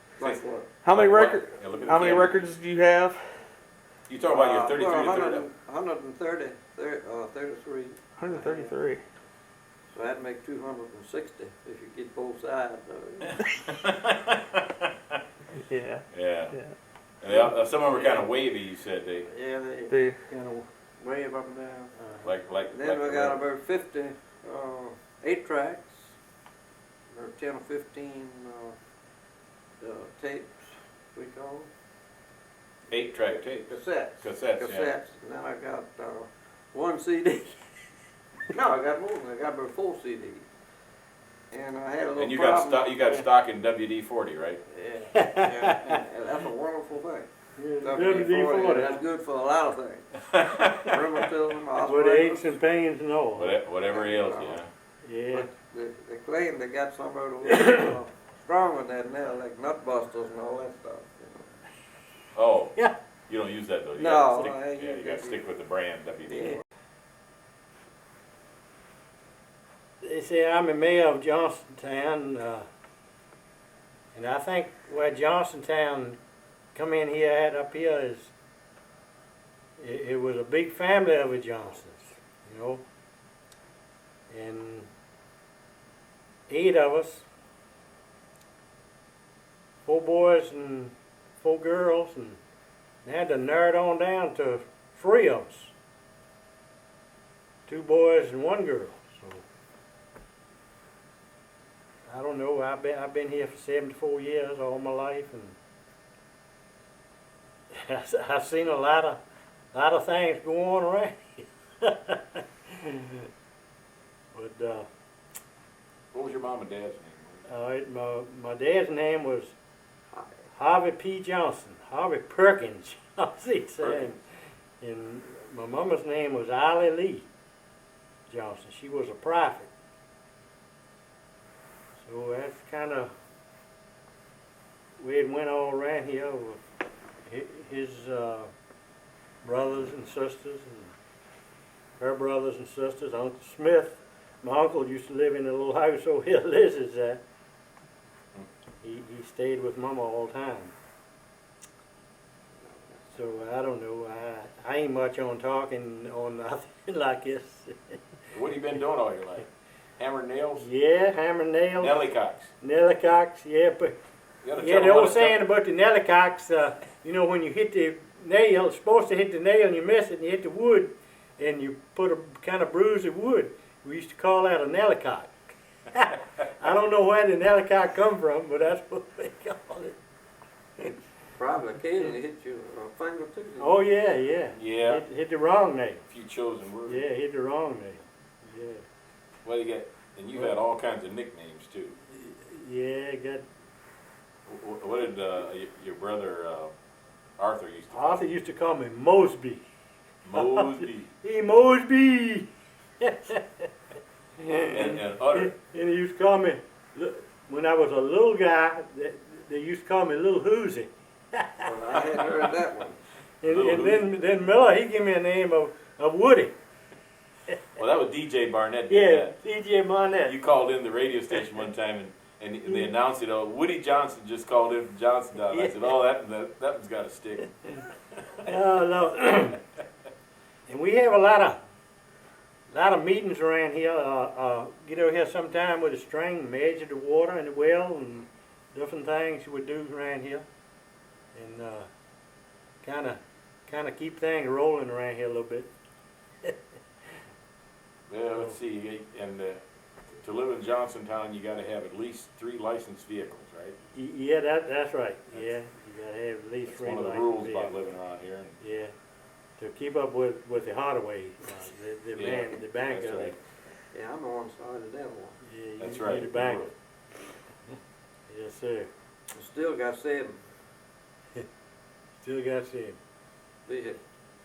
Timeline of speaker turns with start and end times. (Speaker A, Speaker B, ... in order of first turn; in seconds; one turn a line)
Speaker A: 0.2-0.7
Speaker B: 0.2-2.4
Speaker C: 0.8-3.2
Speaker B: 4.1-5.5
Speaker A: 4.3-8.7
Speaker C: 8.2-9.0
Speaker A: 9.9-13.4
Speaker B: 13.7-14.6
Speaker C: 15.7-16.7
Speaker B: 16.1-16.6
Speaker B: 17.2-19.3
Speaker A: 17.9-18.2
Speaker A: 19.3-19.9
Speaker C: 19.9-20.1
Speaker D: 20.3-20.6
Speaker A: 21.0-21.9
Speaker D: 21.9-22.3
Speaker B: 22.2-23.4
Speaker A: 22.7-26.1
Speaker A: 27.1-28.8
Speaker A: 29.8-31.7
Speaker B: 32.9-34.9
Speaker A: 33.2-37.6
Speaker A: 38.5-40.4
Speaker A: 41.5-43.0
Speaker B: 42.2-44.6
Speaker A: 44.7-47.3
Speaker D: 45.1-45.7
Speaker D: 47.6-49.0
Speaker A: 47.8-52.5
Speaker B: 50.3-51.0
Speaker D: 51.8-53.6
Speaker B: 53.4-54.7
Speaker A: 53.9-54.6
Speaker D: 55.0-55.5
Speaker A: 55.3-61.5
Speaker D: 57.5-57.9
Speaker B: 62.4-62.8
Speaker B: 63.3-66.5
Speaker A: 64.0-65.4
Speaker A: 66.3-66.6
Speaker D: 70.0-72.6
Speaker D: 74.1-76.2
Speaker D: 76.7-78.3
Speaker D: 79.8-82.8
Speaker D: 84.3-84.9
Speaker D: 86.5-87.2
Speaker D: 89.8-92.4
Speaker D: 93.0-95.7
Speaker D: 97.7-99.4
Speaker D: 102.1-105.5
Speaker D: 107.7-109.2
Speaker D: 109.7-113.2
Speaker D: 114.3-114.9
Speaker B: 116.1-117.5
Speaker D: 117.5-119.5
Speaker D: 120.5-124.2
Speaker B: 123.8-124.1
Speaker D: 124.8-127.3
Speaker D: 128.3-129.7
Speaker D: 132.0-133.1
Speaker D: 135.0-136.6
Speaker D: 137.2-138.5
Speaker D: 139.4-140.9
Speaker D: 142.0-147.2
Speaker D: 148.8-150.7
Speaker A: 152.6-153.1
Speaker D: 153.1-158.0
Speaker B: 158.3-160.7
Speaker D: 160.6-162.0
Speaker B: 161.8-162.5
Speaker D: 162.6-164.0
Speaker B: 164.4-165.3
Speaker D: 164.6-175.3
Speaker D: 175.9-180.0
Speaker A: 181.4-183.8
Speaker D: 183.6-186.0
Speaker B: 184.6-185.0
Speaker B: 186.1-187.0
Speaker D: 186.8-188.8
Speaker B: 189.4-192.0
Speaker D: 192.1-193.4
Speaker B: 194.5-196.7
Speaker B: 197.4-198.2
Speaker D: 197.9-199.6
Speaker B: 200.2-201.1
Speaker D: 200.3-203.6
Speaker D: 204.4-211.7
Speaker B: 204.7-205.6
Speaker A: 211.6-213.0
Speaker D: 213.4-216.5
Speaker B: 213.4-214.1
Speaker B: 217.8-219.3
Speaker D: 218.9-220.4
Speaker B: 220.2-227.5
Speaker D: 225.5-225.9
Speaker D: 228.4-229.6
Speaker D: 230.7-231.6
Speaker D: 232.7-240.4
Speaker D: 241.3-241.9
Speaker D: 242.8-245.7
Speaker B: 248.1-249.6
Speaker B: 250.2-253.8
Speaker D: 253.9-257.8
Speaker B: 256.7-258.6
Speaker D: 258.6-258.9
Speaker D: 259.6-263.4
Speaker B: 262.1-263.4
Speaker A: 263.9-265.4
Speaker D: 265.4-266.7
Speaker B: 265.8-266.7
Speaker D: 268.3-268.9
Speaker A: 269.3-270.4
Speaker D: 272.2-273.0
Speaker A: 273.6-274.0